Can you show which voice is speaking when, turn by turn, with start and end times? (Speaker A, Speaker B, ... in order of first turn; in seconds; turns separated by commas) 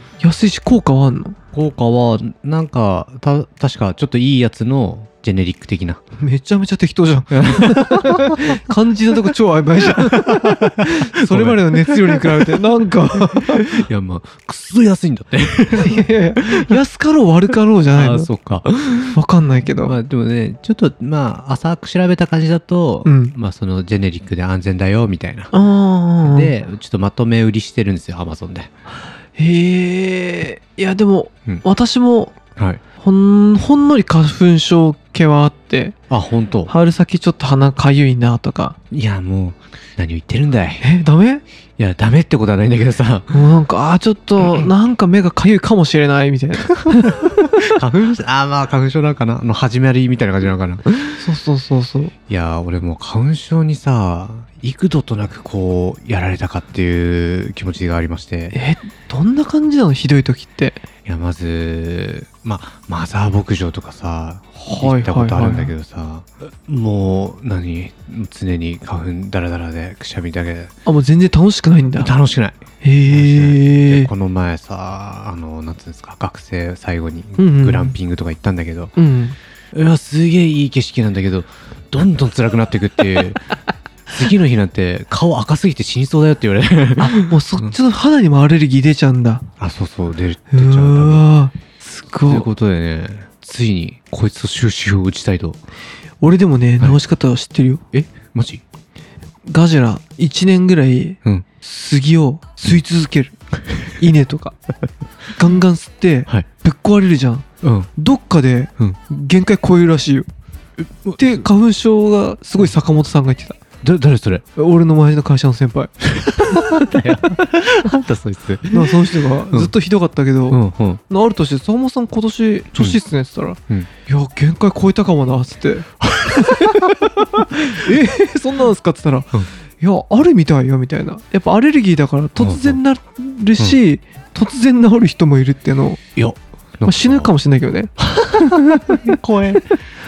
Speaker A: 0.2-1.4, Speaker B: 1.5-6.0, Speaker A: 6.2-13.8, Speaker B: 7.3-8.6, Speaker B: 9.8-16.8, Speaker A: 15.8-18.3, Speaker B: 17.9-19.2, Speaker A: 19.1-20.0, Speaker B: 19.8-25.5, Speaker A: 23.1-23.4, Speaker A: 25.5-26.5, Speaker B: 26.2-28.7, Speaker A: 29.4-32.4, Speaker A: 33.0-36.0, Speaker B: 36.1-36.7, Speaker A: 36.7-38.8, Speaker B: 38.9-40.9, Speaker A: 40.8-41.4, Speaker B: 41.8-43.4, Speaker A: 43.3-47.3, Speaker B: 46.8-51.2, Speaker A: 51.1-52.1, Speaker B: 52.3-58.6, Speaker A: 58.5-60.8, Speaker B: 61.1-70.7, Speaker A: 64.6-65.7, Speaker A: 70.8-72.1, Speaker B: 72.0-78.9, Speaker A: 72.8-74.1, Speaker A: 77.4-78.0, Speaker A: 79.0-79.4, Speaker B: 79.7-83.4, Speaker B: 84.1-87.7, Speaker A: 87.0-89.5, Speaker B: 89.6-91.3, Speaker A: 90.5-92.5, Speaker B: 92.2-95.6, Speaker A: 96.2-97.8, Speaker B: 97.9-98.6, Speaker A: 99.5-104.6, Speaker A: 105.3-110.3, Speaker B: 107.6-107.9, Speaker B: 110.8-111.4, Speaker A: 111.2-113.6, Speaker B: 113.8-114.4, Speaker A: 114.5-117.0, Speaker B: 116.4-119.7, Speaker A: 118.7-136.0, Speaker B: 120.5-121.0, Speaker B: 126.1-126.9, Speaker B: 132.4-132.8, Speaker B: 136.2-137.3, Speaker A: 136.9-139.0, Speaker B: 138.0-139.8